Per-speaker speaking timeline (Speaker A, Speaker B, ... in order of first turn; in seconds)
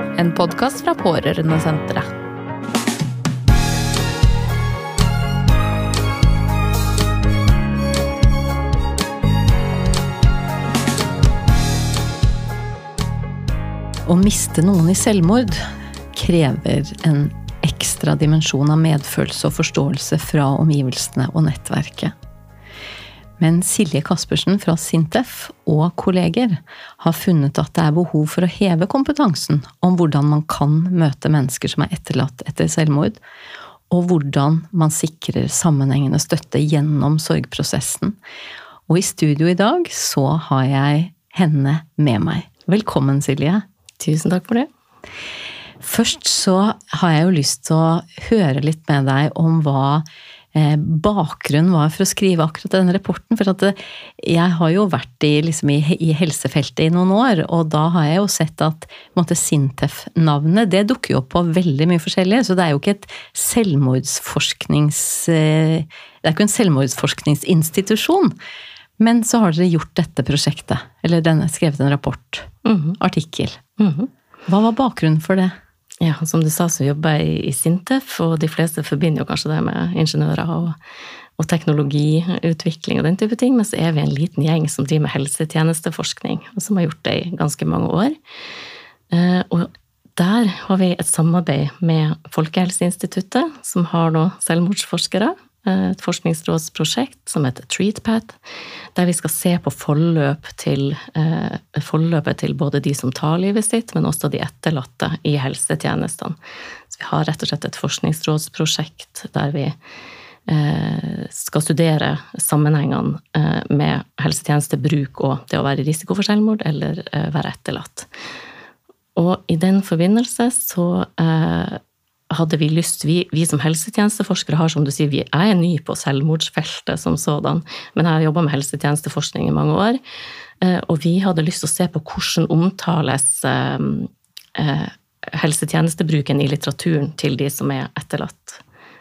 Speaker A: 0.1-2.1
Speaker B: 14.1-22.1, 23.4-33.2, 33.9-38.2, 38.9-43.6, 45.8-68.3, 69.0-73.6, 74.5-75.5
Speaker C: 44.0-44.7, 72.7-73.0, 73.8-74.1, 76.0-80.8, 81.4-88.2, 89.1-98.4, 99.0-106.4, 106.9-109.8, 110.5-118.1, 119.2-130.0, 130.6-138.6